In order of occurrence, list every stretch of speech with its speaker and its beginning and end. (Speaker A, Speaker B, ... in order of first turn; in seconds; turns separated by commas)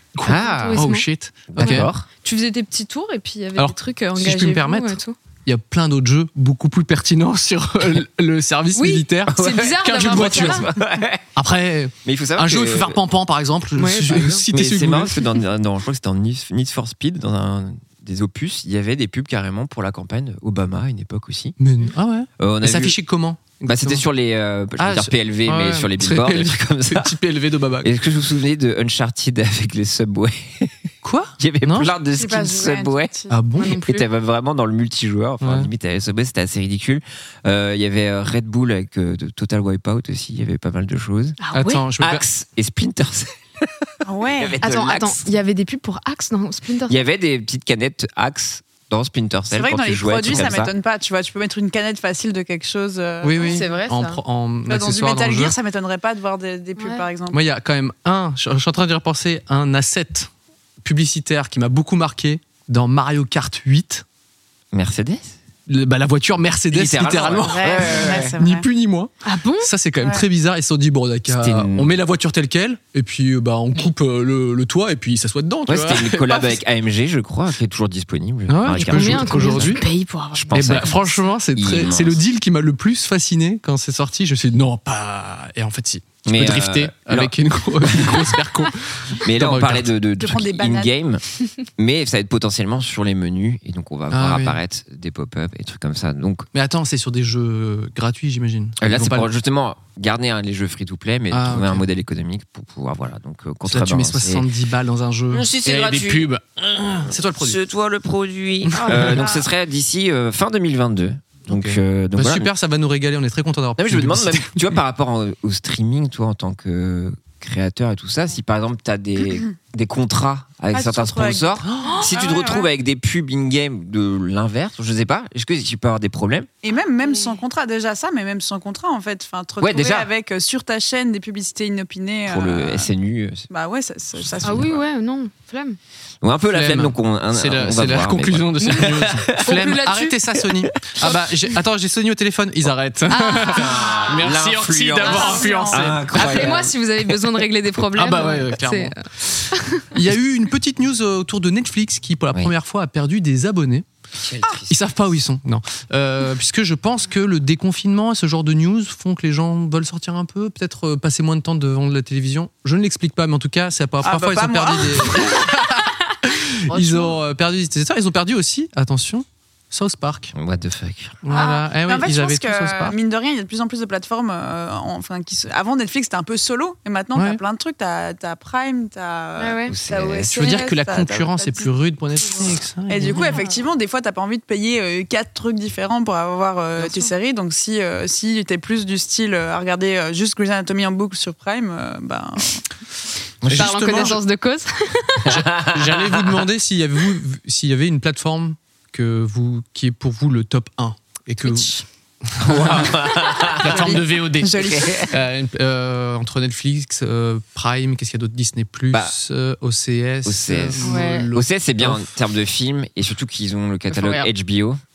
Speaker A: 0.1-1.9, Speaker B: 0.2-0.8, Speaker C: 0.3-5.2, Speaker B: 1.5-2.1, Speaker A: 3.6-10.7, Speaker C: 8.7-10.7, Speaker B: 9.3-11.2, Speaker A: 11.4-15.3, Speaker B: 12.1-13.0, Speaker C: 13.8-14.5, Speaker B: 14.5-21.6, Speaker A: 21.6-24.0, Speaker B: 22.4-23.0, Speaker B: 23.6-27.1, Speaker A: 24.8-27.9, Speaker B: 27.8-30.7, Speaker A: 31.0-31.9, Speaker B: 31.4-33.1, Speaker D: 32.1-33.4, Speaker A: 33.3-33.8, Speaker C: 33.6-34.0, Speaker B: 33.8-41.4, Speaker A: 35.4-35.7, Speaker C: 41.4-41.9, Speaker A: 41.5-42.2, Speaker B: 42.0-45.3, Speaker D: 44.0-44.6, Speaker C: 44.6-47.0, Speaker B: 46.9-50.7, Speaker D: 49.5-53.6, Speaker A: 53.2-55.6, Speaker C: 53.4-54.2, Speaker D: 54.7-57.4, Speaker C: 56.8-57.0, Speaker A: 57.3-60.3, Speaker A: 60.8-64.0, Speaker B: 64.7-65.4, Speaker A: 65.7-69.1, Speaker B: 66.7-68.4, Speaker D: 67.4-68.7, Speaker C: 69.2-69.7, Speaker A: 69.6-76.6, Speaker B: 71.3-71.9, Speaker B: 75.7-79.8, Speaker A: 78.5-79.8, Speaker C: 78.8-81.2, Speaker B: 80.3-82.2, Speaker A: 80.5-89.9, Speaker B: 86.3-88.3, Speaker B: 89.2-91.2, Speaker D: 90.2-90.9, Speaker B: 91.8-96.5, Speaker A: 94.1-94.6, Speaker A: 96.5-99.3, Speaker B: 98.8-104.5, Speaker A: 101.3-101.8, Speaker A: 103.7-107.6, Speaker B: 105.3-106.3, Speaker B: 107.1-112.5, Speaker A: 108.7-109.2, Speaker D: 108.9-109.4, Speaker A: 111.5-114.5, Speaker B: 113.8-126.5, Speaker D: 120.7-122.7, Speaker A: 121.7-122.0, Speaker D: 126.6-132.9, Speaker B: 129.6-130.1, Speaker B: 132.3-133.5, Speaker D: 133.5-134.8, Speaker C: 134.4-135.8, Speaker B: 136.2-139.4, Speaker A: 136.5-146.6, Speaker C: 138.6-140.2, Speaker C: 143.1-143.7, Speaker B: 143.5-146.7, Speaker C: 145.0-149.0, Speaker D: 145.1-145.8, Speaker A: 147.9-149.0, Speaker C: 149.5-149.8, Speaker A: 149.9-153.9, Speaker B: 154.2-154.7, Speaker A: 154.7-170.3, Speaker D: 164.0-165.3, Speaker C: 166.7-167.2, Speaker B: 170.3-171.2, Speaker A: 171.2-173.0, Speaker D: 171.3-181.7, Speaker A: 177.2-177.4, Speaker C: 179.4-179.8, Speaker B: 179.7-180.7, Speaker A: 180.3-183.4, Speaker D: 182.9-192.6, Speaker C: 183.0-183.6, Speaker B: 193.4-194.1, Speaker A: 193.4-194.2, Speaker C: 193.6-195.4, Speaker A: 195.3-201.7, Speaker B: 195.3-196.4, Speaker C: 201.4-201.9, Speaker A: 202.3-204.5, Speaker B: 202.4-204.0, Speaker D: 203.7-205.1, Speaker B: 204.6-205.1, Speaker A: 205.1-212.1, Speaker B: 210.3-214.8, Speaker C: 210.8-211.3, Speaker C: 213.9-214.3